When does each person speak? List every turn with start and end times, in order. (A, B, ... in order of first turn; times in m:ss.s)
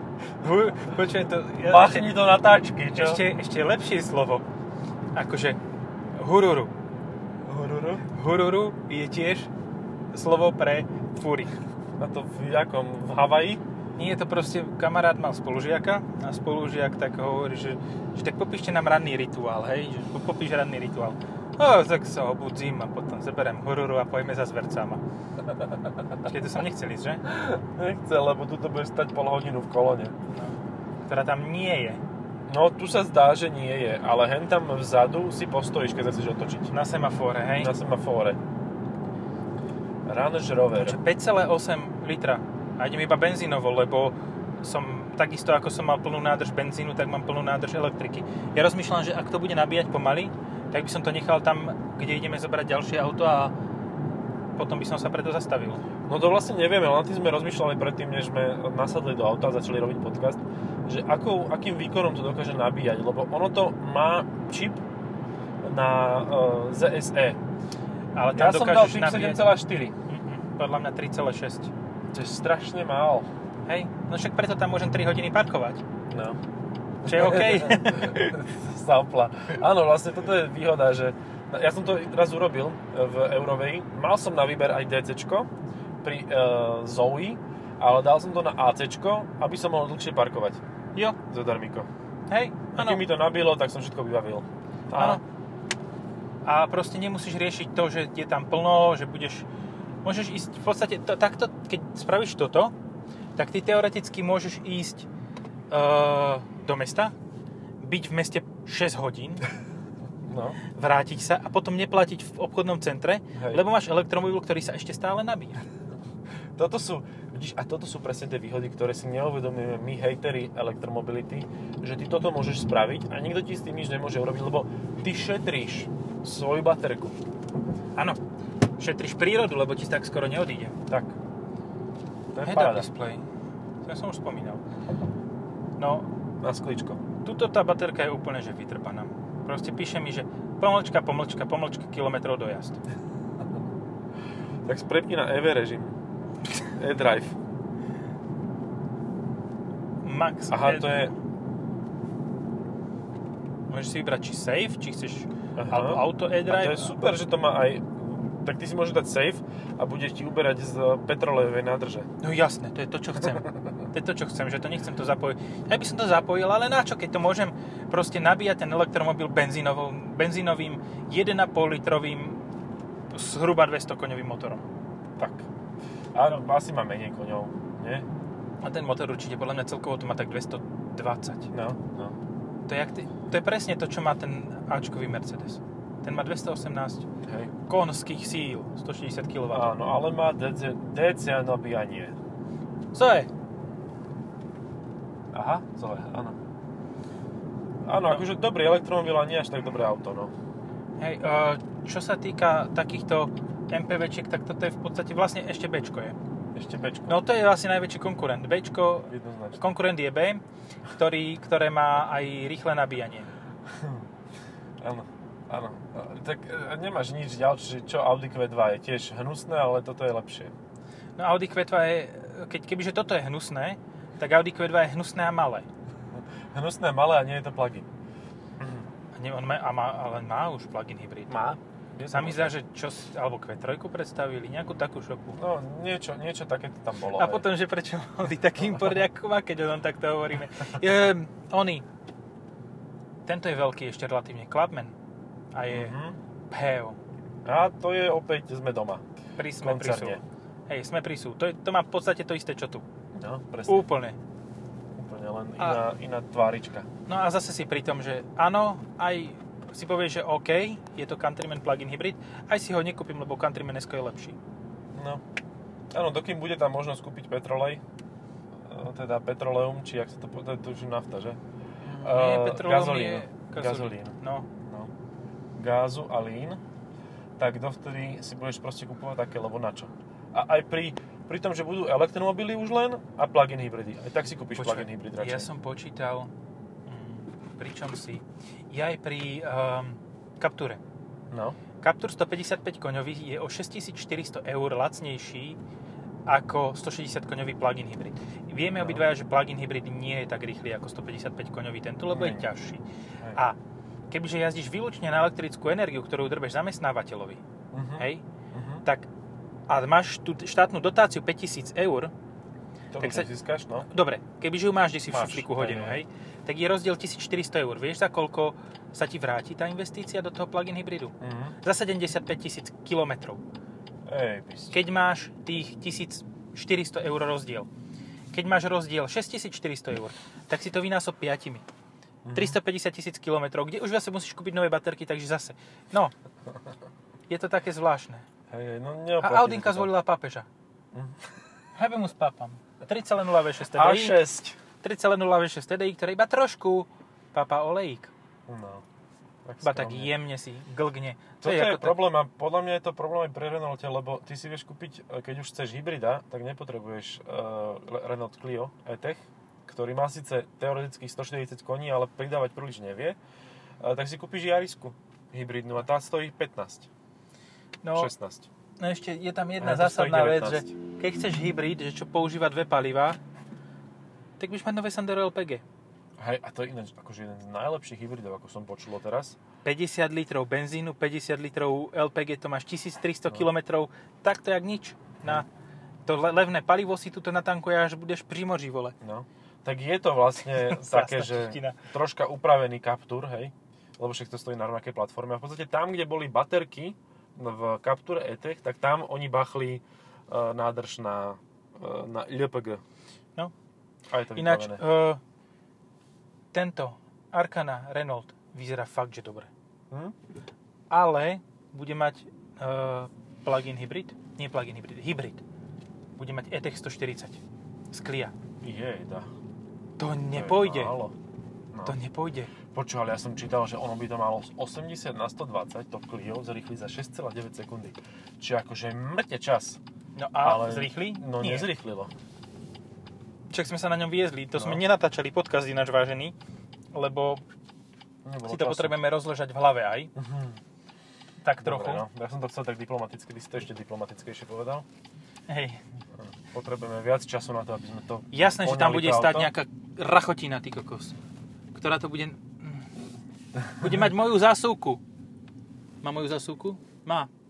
0:00.4-0:02.2 A
0:01.6-0:03.2 B
0:02.9-0:04.4 A
0:05.1-0:05.6 A
0:06.2-0:06.7 A
0:07.4-0:08.0 B
0:08.1-0:09.5 A
0:10.1-0:11.6 A
0:12.0-0:13.6 B
0:14.0-0:25.0 A
0:26.2-0:27.2 A
0:27.2-0:30.1 B
0:30.3-0:32.0 A
0:32.5-0:36.7 B
0:36.7-0:37.7 A
0:37.6-0:38.4 B
0:40.0-0:41.0 B
0:40.7-0:53.5 A
0:54.6-0:55.8 A
0:56.1-1:04.8 B
1:05.6-1:07.4 B
1:08.1-1:09.5 A
1:08.3-1:09.9 B
1:10.1-1:11.7 A
1:12.1-1:13.3 B
1:13.6-1:15.8 A
1:16.1-1:16.4 B
1:17.0-1:25.5 B
1:17.0-1:18.4 A
1:26.0-1:30.6 B
1:31.3-1:31.9 B
1:32.3-1:33.0 A
1:32.8-1:35.2 B
1:34.9-1:35.2 A
1:36.4-1:39.5 A
1:40.0-1:42.7 A
1:43.4-1:45.1 A
1:45.7-1:47.1 A
1:47.8-1:49.4 A
1:50.2-1:50.6 B
1:50.6-1:55.6 A
1:53.4-1:53.6 B
1:56.6-2:07.2 B
2:08.8-2:10.8 A
2:10.9-2:11.1 B
2:12.3-2:12.9 B
2:12.4-2:13.2 A
2:13.8-2:14.6 A
2:15.8-2:16.1 A
2:16.4-2:17.0 B
2:17.2-2:22.8 A
2:24.6-2:25.9 B
2:26.8-2:27.4 B
2:30.0-2:31.0 A
2:30.5-2:31.1 B
2:33.7-2:36.9 A
2:35.6-2:42.1 B
2:42.2-2:52.4 A
2:53.1-2:54.6 A
2:55.2-2:55.4 B
2:56.1-2:58.0 B
2:58.6-3:01.5 A
3:01.5-3:02.1 B
3:02.7-3:07.1 A
3:07.2-3:07.5 B
3:07.7-3:09.7 A
3:09.5-3:12.2 B
3:12.9-3:13.3 A
3:15.3-3:16.4 B
3:17.8-3:20.3 B
3:21.0-3:26.2 A
3:26.5-3:27.2 B
3:27.1-3:33.3 A
3:29.1-3:29.6 B
3:33.7-3:34.1 B
3:34.8-3:40.5 B
3:41.2-3:45.6 A
3:46.1-3:47.9 B
3:48.6-3:48.9 B
3:49.1-3:51.6 A
3:51.3-3:52.5 B
3:52.1-3:55.4 A
3:55.3-3:57.4 B
3:57.1-4:01.8 A
3:58.7-3:59.0 B
4:03.2-4:04.9 A
4:05.5-4:05.9 A
4:05.7-4:06.2 B
4:06.5-4:07.0 A
4:07.4-4:09.0 B
4:09.4-4:12.8 A
4:09.6-4:10.2 B
4:13.1-4:13.9 B
4:13.7-4:14.2 A
4:15.0-4:16.9 B
4:17.1-4:24.4 A
4:24.9-4:25.2 B
4:25.9-4:27.8 B
4:28.6-4:31.4 B
4:31.8-4:34.5 A
4:32.0-4:34.9 B
4:35.6-4:36.6 B
4:37.4-4:45.5 B
4:44.6-4:46.3 A
4:46.9-4:50.8 A
4:51.3-4:51.6 B
4:51.8-4:55.6 A
4:56.3-5:02.8 A
4:58.8-4:59.0 B
5:02.1-5:02.4 B
5:04.1-5:07.4 A
5:07.7-5:08.8 B
5:08.0-5:08.2 A
5:09.7-5:12.1 A
5:12.9-5:13.9 B
5:13.0-5:13.3 A
5:13.8-5:23.4 A
5:15.1-5:16.0 B
5:21.2-5:21.6 B
5:24.0-5:24.7 B
5:24.7-5:27.7 A
5:28.3-5:31.6 A
5:32.2-5:32.6 B
5:32.3-5:36.1 A
5:37.3-5:38.2 A
5:38.5-5:39.9 B
5:39.2-5:40.5 A
5:40.9-5:41.2 B
5:41.7-5:44.2 A
5:43.7-5:44.6 B
5:44.8-5:48.1 A
5:48.5-5:48.8 B
5:49.4-5:50.1 B
5:49.6-5:52.0 A
5:51.4-6:03.2 B
6:03.8-6:06.9 B
6:07.8-6:08.1 A
6:07.9-6:08.5 B
6:08.8-6:13.2 A
6:09.6-6:10.7 B
6:14.4-6:15.6 A
6:16.2-6:19.4 B
6:19.6-6:25.5 A
6:26.0-6:29.0 A
6:29.0-6:42.8 B
6:30.6-6:31.8 A
6:44.1-6:44.8 B
6:44.3-6:45.2 A
6:46.5-6:49.5 A
6:50.9-6:55.4 A
6:56.2-6:58.3 A
6:58.6-6:59.3 B
7:00.0-7:00.9 A
7:00.3-7:01.2 B
7:01.7-7:02.0 B
7:01.8-7:02.5 A
7:02.7-7:09.8 B
7:10.2-7:11.7 A
7:10.4-7:12.1 B
7:13.5-7:16.3 A
7:14.5-7:14.8 B
7:16.9-7:17.4 A
7:18.2-7:19.0 B
7:18.4-7:20.1 A
7:20.1-7:20.6 B
7:21.4-7:22.0 A
7:21.6-7:24.8 B
7:25.5-7:25.8 A
7:26.2-7:29.5 B
7:28.3-7:31.2 A
7:31.7-7:32.9 A
7:33.7-7:33.9 B
7:33.8-7:35.0 A
7:36.0-7:37.3 A